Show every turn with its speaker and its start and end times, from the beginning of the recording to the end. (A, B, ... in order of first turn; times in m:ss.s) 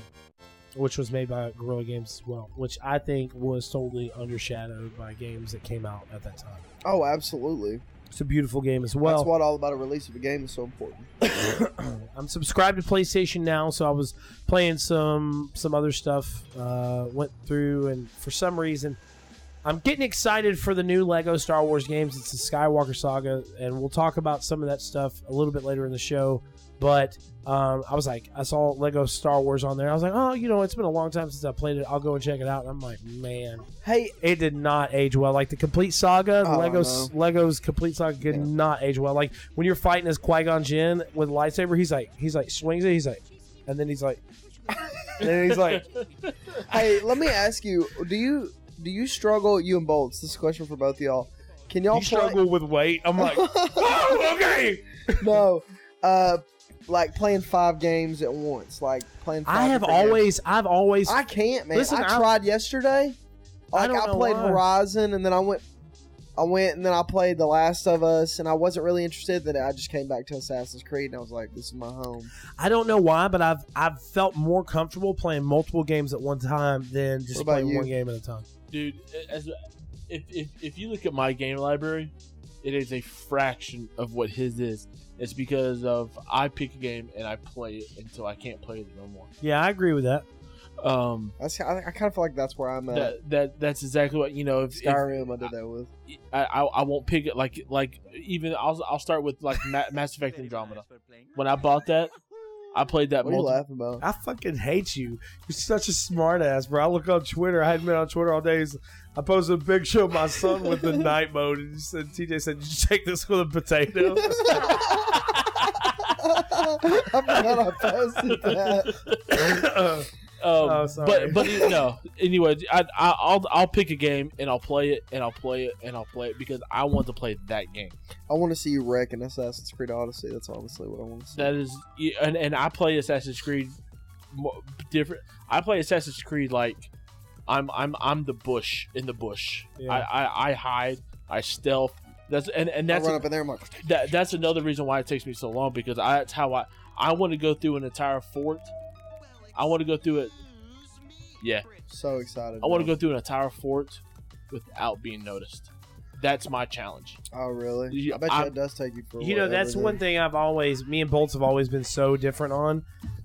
0:00.8-0:06.6 A
0:06.8-0:07.8 B
0:08.1-0:09.3 A
0:09.0-0:11.1 B
0:11.2-0:19.0 A
0:19.6-0:33.7 A
0:33.8-0:34.2 B
0:34.2-0:44.2 A
0:36.4-0:37.1 B
0:44.8-0:45.2 B
0:45.2-0:45.9 A
0:45.5-0:46.7 C
0:46.6-0:52.4 B
0:51.9-0:55.4 A
0:53.2-0:54.3 B
0:55.2-1:00.3 B
0:59.5-1:01.2 A
1:01.1-1:03.2 B
1:01.7-1:02.3 A
1:03.7-1:05.6 B
1:03.7-1:04.6 A
1:06.4-1:12.3 B
1:12.6-1:18.5 A
1:17.3-1:17.9 B
1:18.7-1:19.6 C
1:20.1-1:29.3 C
1:29.4-1:30.2 A
1:30.8-1:31.3 C
1:31.4-1:33.2 B
1:32.9-1:35.1 C
1:34.7-1:35.9 B
1:36.1-1:42.1 C
1:42.7-1:43.6 C
1:43.2-1:44.0 B
1:44.0-1:55.4 A
1:54.2-1:55.2 B
1:55.4-1:56.1 C
1:56.2-1:59.0 B
1:58.3-1:59.7 C
1:59.3-2:01.7 A
2:00.4-2:08.0 C
2:01.4-2:01.7 B
2:08.3-2:11.5 B
2:11.3-2:13.8 C
2:14.3-2:16.9 C
2:17.5-2:23.3 C
2:19.8-2:20.1 A
2:22.9-2:24.0 B
2:23.8-2:28.7 C
2:29.6-2:30.3 C
2:31.4-2:31.7 C
2:31.9-2:32.9 B
2:32.6-2:37.2 C
2:37.3-2:40.0 B
2:37.9-2:38.5 C
2:39.2-2:42.8 A